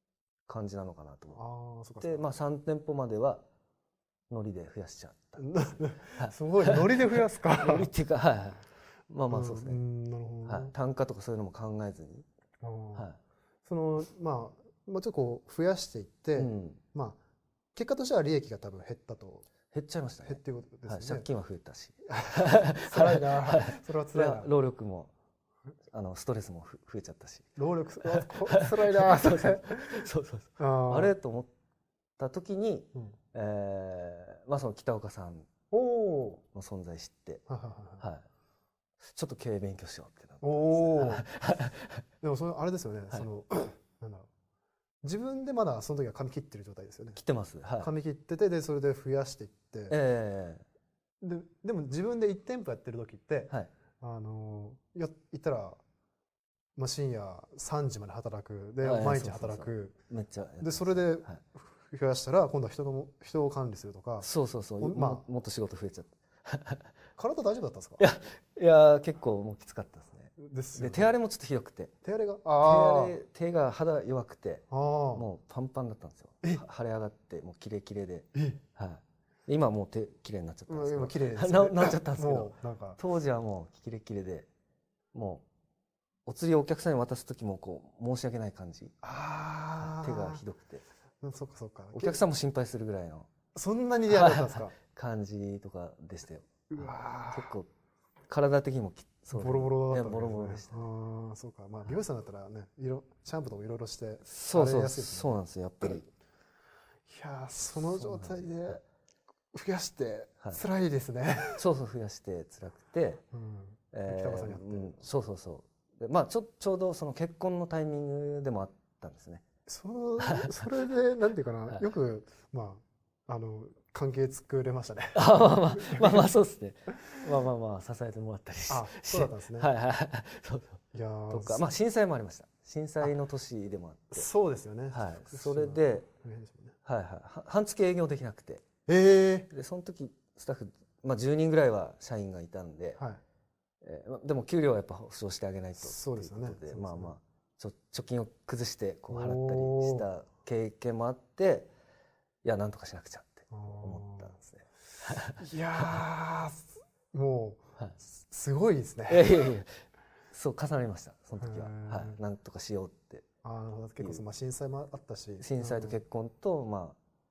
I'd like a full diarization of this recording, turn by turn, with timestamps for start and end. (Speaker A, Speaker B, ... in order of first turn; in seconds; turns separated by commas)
Speaker A: 0.5-1.4, Speaker B: 1.3-2.2, Speaker A: 2.0-3.4, Speaker A: 4.3-9.8, Speaker B: 5.4-7.9, Speaker B: 9.3-10.7, Speaker A: 10.4-12.2, Speaker B: 12.6-13.1, Speaker B: 13.6-17.2, Speaker A: 16.3-16.8, Speaker B: 17.7-19.4, Speaker A: 19.7-25.1, Speaker B: 20.2-21.2, Speaker B: 22.1-24.5, Speaker A: 25.9-31.5, Speaker B: 27.6-30.1, Speaker B: 30.6-31.1, Speaker A: 32.2-35.5, Speaker B: 35.7-36.4, Speaker A: 36.5-37.4, Speaker B: 37.5-38.1, Speaker A: 38.0-38.2, Speaker A: 39.1-42.0, Speaker B: 40.4-41.2, Speaker B: 42.2-44.3, Speaker B: 45.0-47.2, Speaker A: 47.1-47.9, Speaker B: 47.8-50.0, Speaker A: 49.9-50.6, Speaker B: 51.2-55.8, Speaker B: 56.8-60.0, Speaker A: 58.8-61.4, Speaker B: 60.6-64.3, Speaker A: 64.2-66.9, Speaker B: 64.8-65.2, Speaker B: 67.2-68.0, Speaker A: 68.0-71.9, Speaker B: 70.4-71.1, Speaker B: 72.0-73.2, Speaker A: 72.6-84.5, Speaker B: 74.7-75.2, Speaker B: 78.3-78.6, Speaker B: 80.7-83.0, Speaker A: 85.1-85.4, Speaker A: 86.2-88.9, Speaker B: 89.0-90.4, Speaker A: 89.8-90.8, Speaker B: 91.2-92.2, Speaker A: 91.9-93.3, Speaker B: 93.5-94.7, Speaker A: 94.1-97.7, Speaker B: 96.7-97.5, Speaker A: 98.3-100.9, Speaker B: 99.3-105.3, Speaker A: 104.2-106.1, Speaker B: 107.1-108.8, Speaker A: 107.8-108.8, Speaker B: 109.5-111.6, Speaker A: 111.6-113.2, Speaker B: 113.3-115.0, Speaker A: 113.9-119.4, Speaker B: 119.7-125.2, Speaker A: 120.2-120.6, Speaker A: 125.1-134.3, Speaker B: 125.7-126.3, Speaker B: 128.7-129.7, Speaker B: 130.9-131.7, Speaker B: 134.1-136.7, Speaker A: 134.9-136.1, Speaker A: 136.8-138.6, Speaker B: 138.9-139.5, Speaker A: 139.5-143.0, Speaker A: 143.8-151.7, Speaker B: 145.8-147.1, Speaker B: 149.1-150.1, Speaker A: 152.4-156.0, Speaker B: 153.5-154.3, Speaker B: 155.4-159.5, Speaker A: 159.1-163.2, Speaker B: 161.4-162.2, Speaker B: 163.4-166.0, Speaker A: 164.0-164.2, Speaker A: 165.4-167.0